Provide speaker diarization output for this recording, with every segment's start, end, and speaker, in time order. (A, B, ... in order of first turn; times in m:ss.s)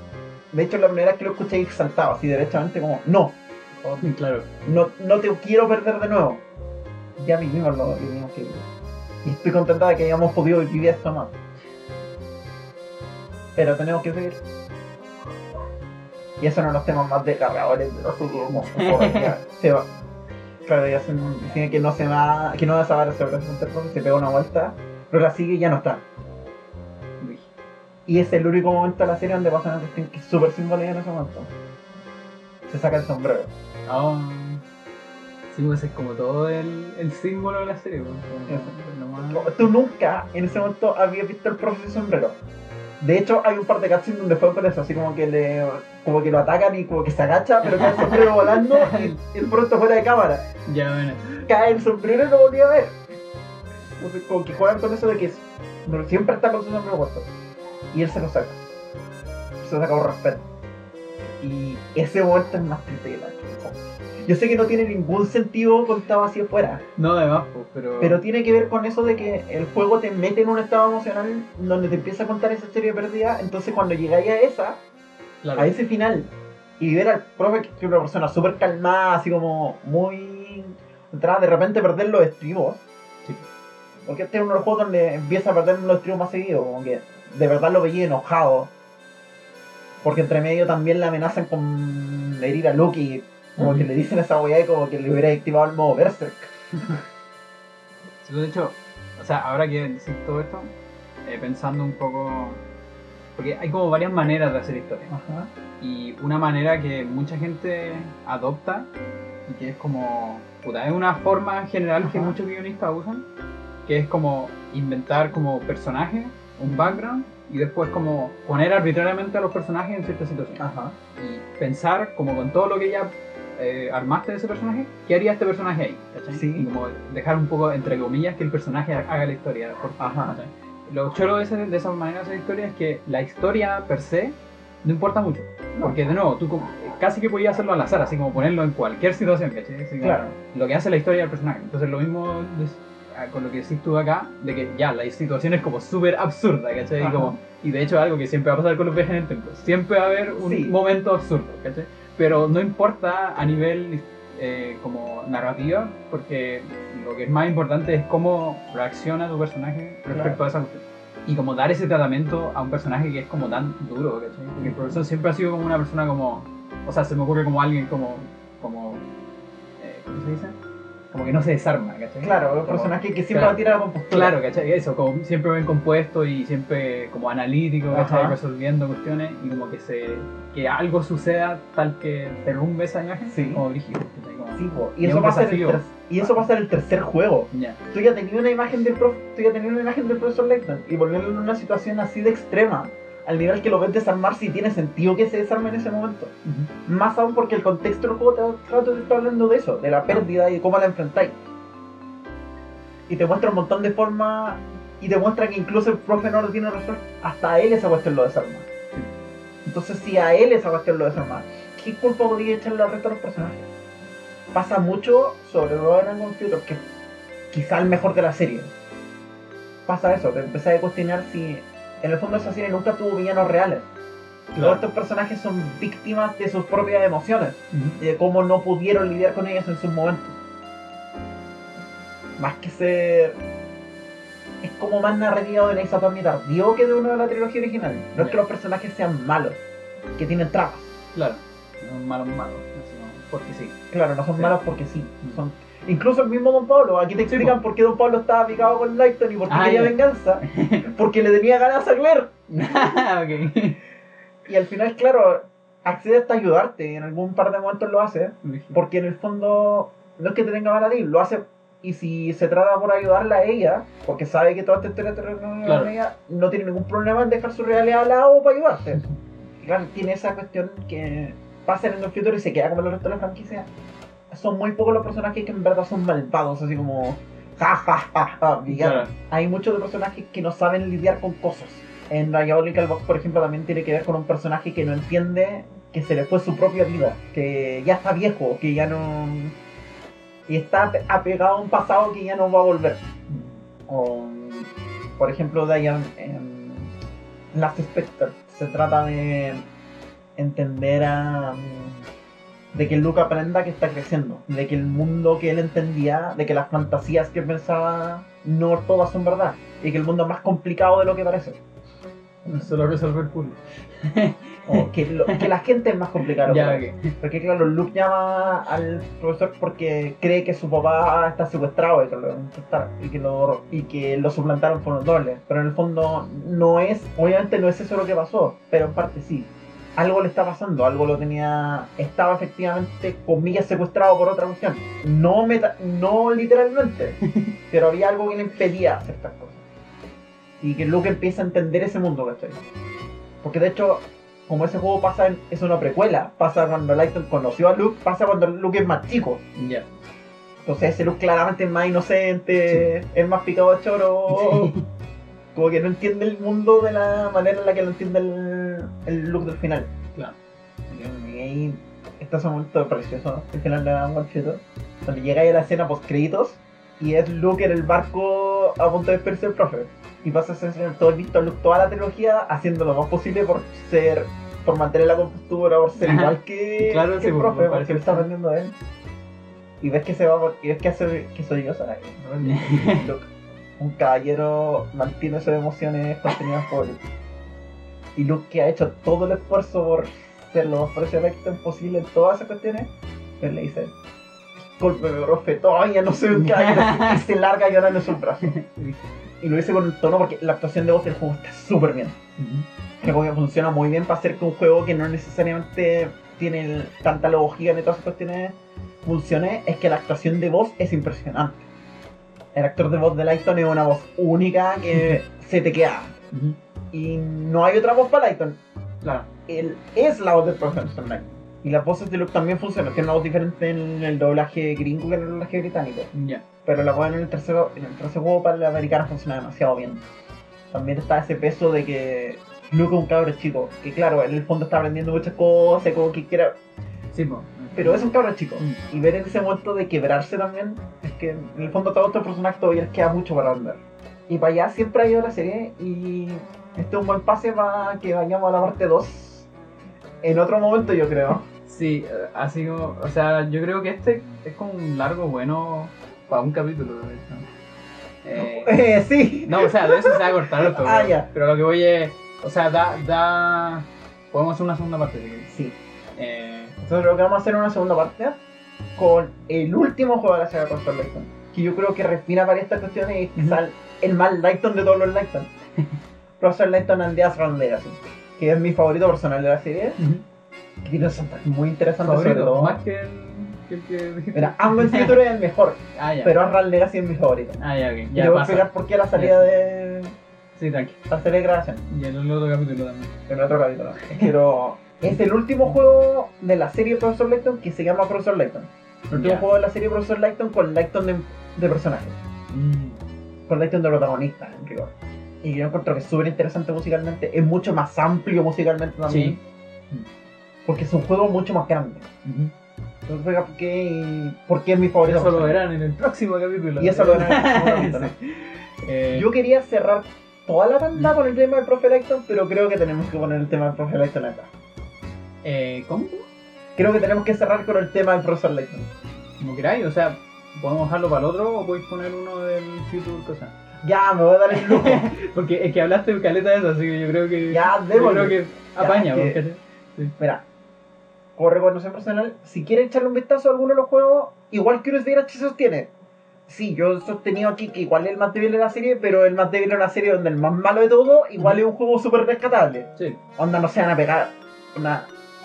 0:00.5-0:04.1 A
0:04.0-0:04.5 B
0:04.6-0:06.4 A
0:07.2-0:08.6 A
0:09.2-0:11.4 A
0:13.6-0:14.4 A
0:16.4-0:19.9 A
0:18.5-0:19.4 B
0:20.7-0:26.0 A
0:21.2-0:21.6 B
0:27.2-0:27.5 B
0:28.1-0:31.5 A
0:32.7-0:33.5 A
0:33.9-0:34.6 B
0:35.5-0:39.7 B
0:38.5-0:38.8 A
0:39.3-0:42.4 A
0:43.0-0:50.5 A
0:47.6-0:49.2 B
0:50.7-0:51.5 B
0:51.5-0:53.0 A
0:54.0-0:57.3 A
0:57.9-0:58.6 A
0:59.6-1:00.4 A
1:01.2-1:06.8 A
1:07.0-1:08.2 B
1:08.0-1:14.8 A
1:15.4-1:15.8 B
1:15.6-1:22.8 A
1:24.1-1:28.7 A
1:30.0-1:37.0 A
1:33.6-1:33.9 B
1:38.2-1:40.7 B
1:41.2-1:42.6 B
1:43.4-1:45.1 B
1:45.1-1:45.5 A
1:45.8-1:48.9 B
1:49.5-1:53.2 B
1:52.0-1:52.4 A
1:53.9-2:00.6 B
1:56.7-1:57.0 A
2:00.6-2:01.0 A
2:01.2-2:49.0 B
2:06.3-2:06.7 A
2:10.0-2:10.4 A
2:20.0-2:20.4 A
2:27.0-2:27.4 A
2:30.3-2:30.8 A
2:40.1-2:40.4 A
2:49.8-2:50.6 B
2:51.1-2:53.6 B
2:52.2-2:54.4 A
2:54.1-3:06.5 B
2:57.9-2:58.4 A
3:03.3-3:03.6 A
3:04.5-3:16.3 A
3:07.5-3:07.8 B
3:16.4-3:16.7 B
3:16.8-3:21.4 A
3:23.1-3:28.7 A
3:29.7-3:33.7 A
3:34.5-3:36.8 A
3:37.5-3:38.7 A
3:39.9-3:43.9 A
3:44.6-3:44.8 B
3:44.6-3:50.4 A
3:47.7-3:48.0 B
3:52.4-3:53.4 A
3:54.6-3:59.6 A
3:58.2-3:58.4 B
4:00.2-4:00.9 A
4:01.1-4:03.8 B
4:03.9-4:12.3 A
4:07.3-4:07.6 B
4:09.5-4:10.8 B
4:12.5-4:13.8 B
4:14.5-4:29.0 A
4:18.4-4:18.8 B
4:25.6-4:26.0 B
4:29.6-4:33.7 A
4:34.3-4:49.6 A
4:38.7-4:39.1 B
4:50.5-4:53.0 A
4:53.3-4:53.6 B
4:53.9-4:56.9 A
4:57.5-4:59.6 A
5:00.4-5:02.0 A
5:02.7-5:11.6 A
5:12.5-5:15.5 B
5:14.7-5:39.6 A
5:16.4-5:17.1 B
5:40.6-5:42.6 A
5:43.4-5:49.4 A
5:49.6-5:49.9 B
5:50.6-5:54.7 A
5:52.6-5:52.9 B
5:54.3-5:54.8 B
5:55.6-5:59.9 A
6:00.9-6:18.8 A
6:16.0-6:18.3 B
6:19.8-6:27.0 A
6:22.4-6:23.1 B
6:28.2-6:33.9 A
6:34.6-6:38.6 A
6:36.3-6:37.2 B
6:38.4-6:39.0 B
6:39.4-6:42.2 A
6:42.4-6:42.7 B
6:43.0-6:51.7 A
6:52.6-6:56.2 A
6:56.3-6:56.6 B
6:56.9-6:58.6 A
6:59.0-6:59.3 B
6:59.5-7:06.1 A
7:06.1-7:06.4 B
7:06.6-7:10.0 A
7:10.7-7:16.6 A
7:17.1-7:18.8 B
7:17.8-7:29.5 A
7:30.2-7:31.5 A
7:31.7-7:37.5 B
7:38.2-7:38.8 B
7:38.4-7:41.3 A
7:39.4-7:45.5 B
7:45.5-7:45.8 A
7:46.2-7:46.8 B
7:46.8-7:48.4 A
7:49.0-7:55.5 A
7:56.4-8:00.0 A
8:00.0-8:00.2 B
8:00.8-8:02.8 A
8:02.0-8:05.2 B
8:04.3-8:07.6 A
8:06.0-8:06.5 B
8:07.6-8:09.5 B
8:08.1-8:10.2 A
8:10.6-8:11.0 B
8:11.1-8:11.9 A
8:11.9-8:13.1 B
8:13.3-8:22.2 A
8:19.1-8:19.4 B
8:22.5-8:23.0 B
8:23.5-8:29.4 A
8:29.1-8:29.4 B
8:30.7-8:32.1 A
8:32.2-8:32.5 B
8:33.1-8:35.6 A
8:35.0-8:39.3 B
8:36.8-8:38.1 A
8:39.1-8:44.5 A
8:45.4-8:46.3 B
8:46.8-8:48.9 A
8:49.4-8:53.6 B
8:53.8-8:55.1 A
8:54.5-9:00.2 B
8:57.5-8:59.4 A
9:01.4-9:05.9 A
9:06.5-9:15.1 A